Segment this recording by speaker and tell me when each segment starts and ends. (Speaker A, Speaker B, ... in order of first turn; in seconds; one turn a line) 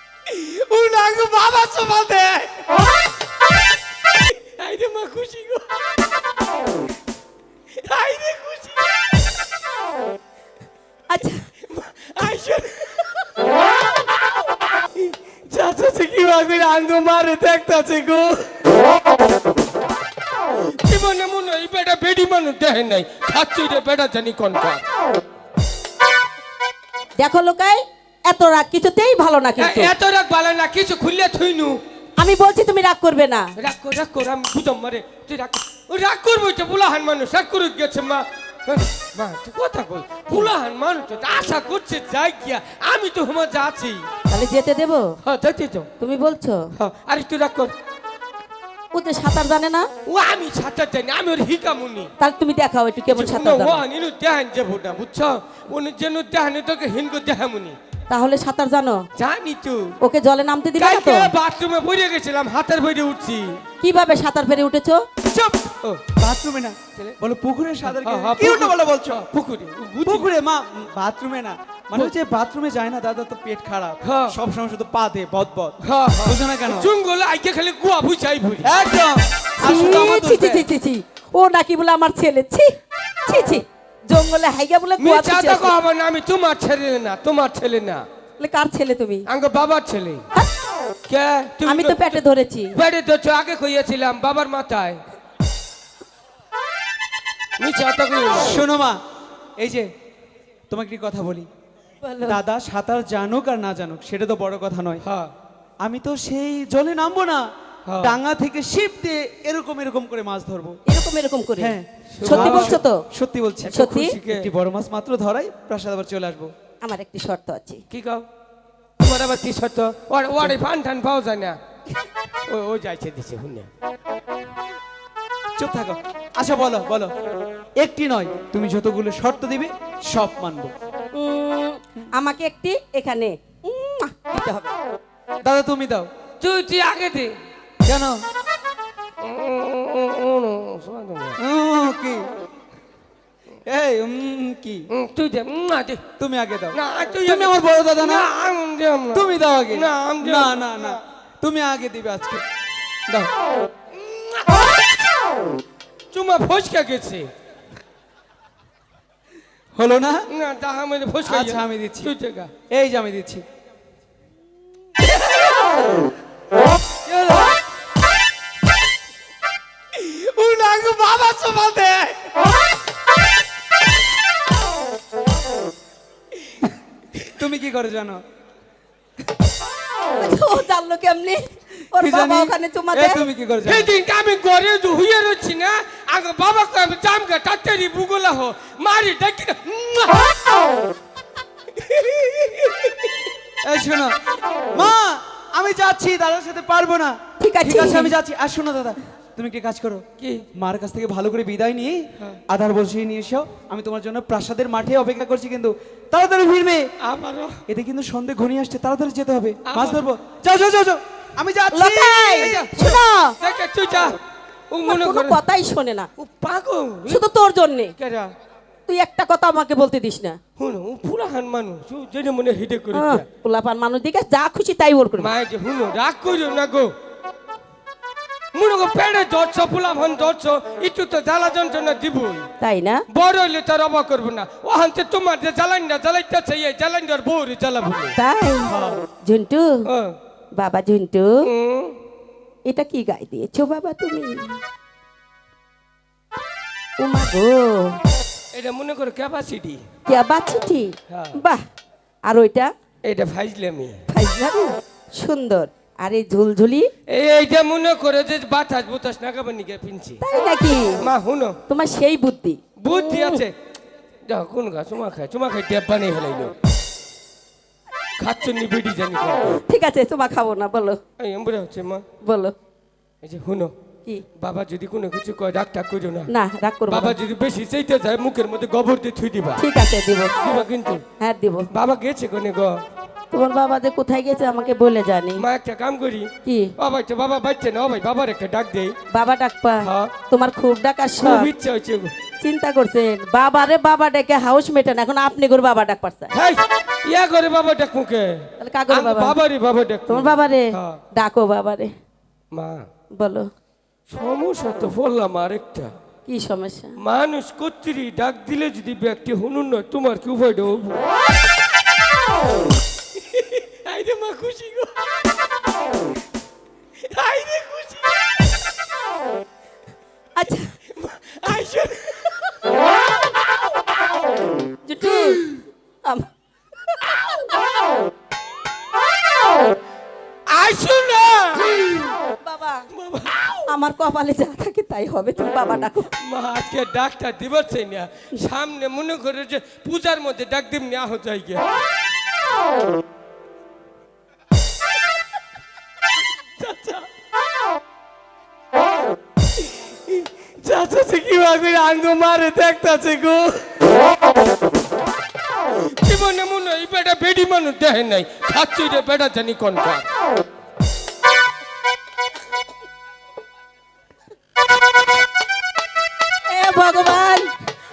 Speaker A: 0.3-2.6
Speaker A: 4.2-5.7
Speaker A: 7.7-9.0
Speaker B: 11.1-11.4
Speaker A: 11.6-13.3
Speaker A: 14.9-18.7
Speaker A: 20.8-24.8
Speaker B: 27.2-29.9
Speaker A: 29.6-31.8
Speaker B: 32.2-33.5
Speaker A: 33.6-44.0
Speaker B: 44.3-45.0
Speaker A: 45.2-45.9
Speaker B: 46.0-46.6
Speaker A: 46.7-47.7
Speaker B: 48.9-49.9
Speaker A: 50.0-52.1
Speaker B: 52.2-53.8
Speaker A: 53.1-57.8
Speaker B: 58.1-59.1
Speaker A: 59.1-60.0
Speaker B: 60.0-61.3
Speaker A: 60.8-63.6
Speaker B: 63.8-65.0
Speaker A: 65.4-66.0
Speaker C: 66.0-69.3
Speaker A: 67.8-70.3
Speaker C: 70.0-76.9
Speaker A: 74.0-74.3
Speaker A: 75.8-78.7
Speaker C: 78.6-80.7
Speaker B: 79.6-82.7
Speaker B: 83.2-85.8
Speaker A: 85.0-88.0
Speaker B: 88.4-89.2
Speaker A: 89.3-90.2
Speaker A: 91.1-92.2
Speaker B: 91.6-92.7
Speaker A: 92.7-95.0
Speaker A: 97.6-98.6
Speaker C: 98.3-99.0
Speaker C: 99.6-99.9
Speaker C: 100.7-101.5
Speaker B: 102.0-102.4
Speaker C: 102.2-105.0
Speaker A: 105.0-105.3
Speaker C: 105.8-107.4
Speaker A: 107.8-108.2
Speaker C: 108.0-110.8
Speaker B: 110.9-113.0
Speaker C: 111.6-116.5
Speaker A: 112.1-112.8
Speaker A: 113.7-114.5
Speaker B: 113.7-114.2
Speaker B: 116.8-117.8
Speaker A: 117.9-118.2
Speaker A: 119.0-121.6
Speaker A: 122.5-123.7
Speaker C: 125.6-127.1
Speaker C: 127.8-130.7
Speaker B: 131.1-134.7
Speaker C: 135.4-136.1
Speaker A: 136.4-137.4
Speaker C: 137.8-138.2
Speaker A: 139.2-141.4
Speaker C: 141.4-142.3
Speaker C: 143.7-144.8
Speaker A: 144.9-146.0
Speaker C: 146.2-148.3
Speaker A: 146.7-151.0
Speaker C: 149.1-152.4
Speaker A: 153.9-154.7
Speaker A: 156.1-157.3
Speaker C: 159.7-160.3
Speaker A: 160.3-162.5
Speaker C: 161.2-162.1
Speaker C: 162.7-163.4
Speaker A: 165.1-165.6
Speaker A: 167.1-167.4
Speaker A: 169.9-172.2
Speaker C: 177.3-178.2
Speaker B: 180.1-181.4
Speaker B: 181.9-183.2
Speaker C: 182.0-183.9
Speaker A: 183.6-190.4
Speaker A: 191.7-193.1
Speaker C: 193.6-194.2
Speaker C: 194.7-200.0
Speaker B: 197.4-198.1
Speaker A: 200.2-200.4
Speaker C: 200.5-206.9
Speaker A: 207.0-207.6
Speaker C: 207.7-212.8
Speaker A: 209.6-210.0
Speaker B: 211.7-213.3
Speaker A: 212.4-214.2
Speaker A: 214.7-215.4
Speaker B: 214.8-216.1
Speaker A: 216.2-217.2
Speaker B: 217.1-217.9
Speaker A: 218.0-218.3
Speaker B: 218.9-220.4
Speaker A: 220.6-223.2
Speaker B: 222.9-225.3
Speaker A: 225.2-226.9
Speaker A: 228.5-232.5
Speaker B: 232.6-233.0
Speaker A: 233.1-238.2
Speaker B: 238.2-239.8
Speaker C: 238.7-239.1
Speaker A: 239.8-240.2
Speaker B: 240.6-241.4
Speaker A: 241.4-242.0
Speaker B: 242.7-244.6
Speaker B: 247.0-248.0
Speaker A: 248.5-249.8
Speaker B: 250.1-251.6
Speaker A: 251.1-251.4
Speaker B: 252.2-252.7
Speaker A: 253.0-254.0
Speaker B: 254.1-256.9
Speaker A: 257.1-260.2
Speaker B: 260.2-261.0
Speaker A: 261.0-261.6
Speaker B: 261.7-263.4
Speaker A: 262.8-263.5
Speaker A: 264.3-266.5
Speaker A: 268.2-269.6
Speaker B: 269.6-271.0
Speaker A: 271.2-272.1
Speaker B: 272.2-272.5
Speaker A: 273.2-273.7
Speaker A: 274.4-276.3
Speaker B: 276.3-277.2
Speaker A: 276.9-279.6
Speaker B: 279.6-280.3
Speaker A: 280.4-281.0
Speaker B: 281.2-281.7
Speaker A: 281.7-282.8
Speaker B: 283.3-285.4
Speaker A: 285.4-288.9
Speaker B: 286.4-286.7
Speaker B: 289.1-291.5
Speaker A: 289.8-290.1
Speaker A: 291.2-292.1
Speaker B: 292.4-296.3
Speaker A: 296.3-301.0
Speaker B: 298.6-299.4
Speaker B: 300.1-301.9
Speaker A: 302.5-302.9
Speaker B: 303.2-303.5
Speaker A: 304.1-305.9
Speaker B: 306.3-306.9
Speaker A: 307.0-311.0
Speaker A: 313.1-314.9
Speaker A: 317.1-318.2
Speaker B: 320.4-320.7
Speaker A: 320.9-322.5
Speaker B: 324.8-325.4
Speaker A: 330.5-332.1
Speaker B: 332.4-332.9
Speaker A: 332.9-333.7
Speaker B: 333.7-336.1
Speaker A: 336.2-341.6
Speaker A: 346.6-347.1
Speaker A: 349.7-353.8
Speaker A: 355.9-360.1
Speaker B: 366.5-367.5